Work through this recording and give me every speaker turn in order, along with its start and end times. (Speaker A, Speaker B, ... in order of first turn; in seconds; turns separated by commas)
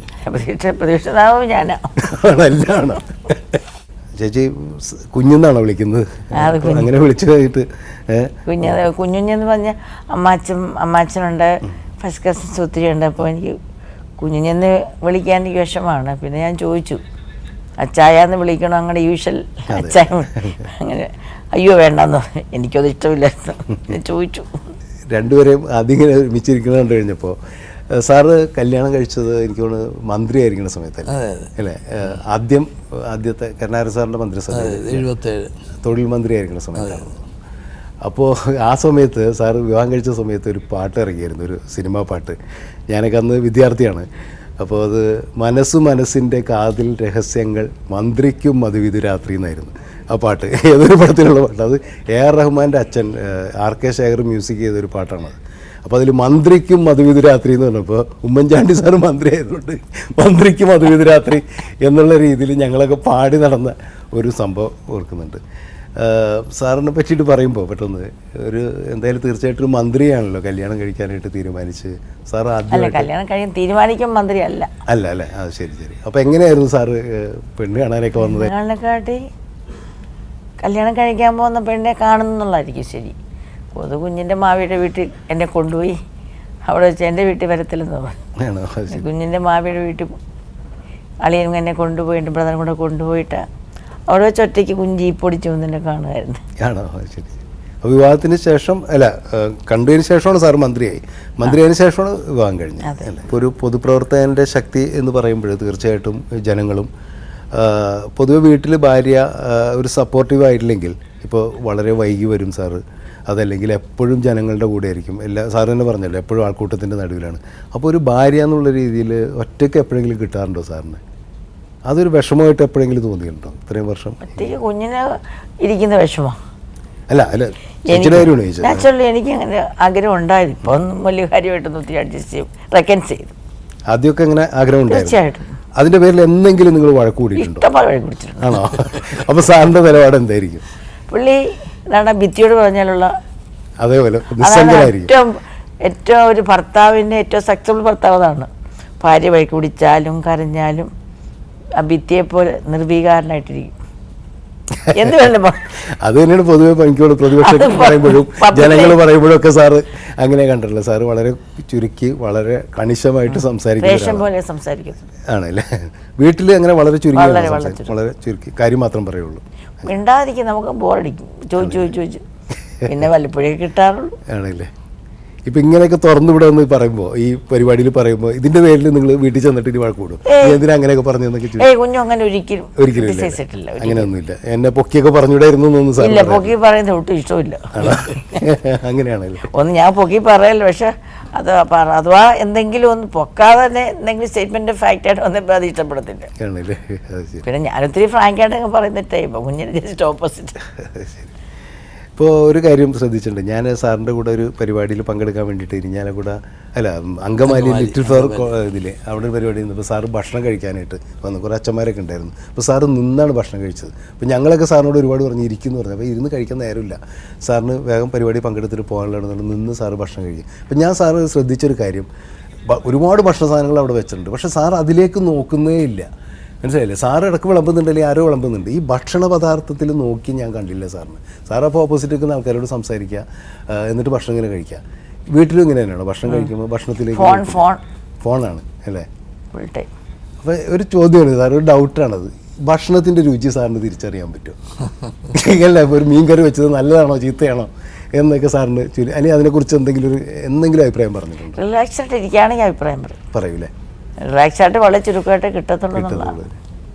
Speaker A: 0.3-1.9, Speaker B: 2.0-3.6, Speaker B: 4.2-8.8, Speaker A: 6.4-6.9, Speaker A: 8.5-13.6, Speaker A: 14.2-17.0, Speaker A: 17.8-24.5, Speaker B: 19.7-20.6, Speaker B: 25.1-27.4, Speaker B: 27.9-35.1, Speaker C: 31.1-31.5, Speaker C: 34.5-35.5, Speaker B: 35.8-37.3, Speaker C: 36.8-37.1, Speaker B: 38.0-42.4, Speaker B: 42.9-44.1, Speaker B: 44.6-65.4, Speaker B: 66.0-73.1, Speaker A: 72.7-74.7, Speaker B: 74.9-78.5, Speaker A: 78.2-79.2, Speaker A: 80.6-83.2, Speaker A: 83.8-86.0, Speaker A: 86.7-88.2, Speaker B: 88.4-89.0, Speaker A: 88.9-90.1, Speaker A: 91.2-93.4, Speaker A: 94.1-96.4, Speaker B: 96.6-106.9, Speaker A: 102.8-103.1, Speaker B: 107.5-121.0, Speaker B: 121.9-124.6, Speaker A: 124.3-126.4, Speaker B: 127.1-128.9, Speaker A: 127.9-133.3, Speaker B: 133.9-135.2, Speaker A: 134.9-135.5, Speaker B: 135.8-137.7, Speaker A: 137.4-138.7, Speaker B: 138.4-140.6, Speaker A: 141.1-143.1, Speaker B: 143.8-145.1, Speaker A: 144.4-148.5, Speaker A: 149.0-150.9, Speaker A: 151.8-153.8, Speaker A: 154.9-155.6, Speaker B: 156.0-164.3, Speaker A: 157.4-159.0, Speaker A: 163.8-165.0, Speaker B: 165.3-165.7, Speaker B: 166.2-169.9, Speaker A: 167.2-167.9, Speaker A: 169.8-172.2, Speaker B: 171.6-171.9, Speaker A: 172.8-174.2, Speaker B: 174.3-174.7, Speaker B: 175.5-181.7, Speaker A: 180.3-180.6, Speaker A: 181.6-184.1, Speaker B: 182.8-186.5, Speaker A: 186.0-188.4, Speaker B: 187.7-189.5, Speaker A: 189.5-196.3, Speaker B: 196.4-197.4, Speaker A: 197.4-200.6, Speaker B: 200.8-201.3, Speaker B: 202.2-222.1, Speaker C: 207.4-208.5, Speaker B: 222.7-226.1, Speaker B: 226.6-237.7, Speaker A: 237.2-237.8, Speaker B: 238.2-239.1, Speaker A: 239.5-239.9, Speaker B: 240.4-244.6, Speaker B: 245.3-251.6, Speaker A: 251.6-253.2, Speaker B: 253.3-253.7, Speaker A: 254.2-256.4, Speaker B: 255.9-256.6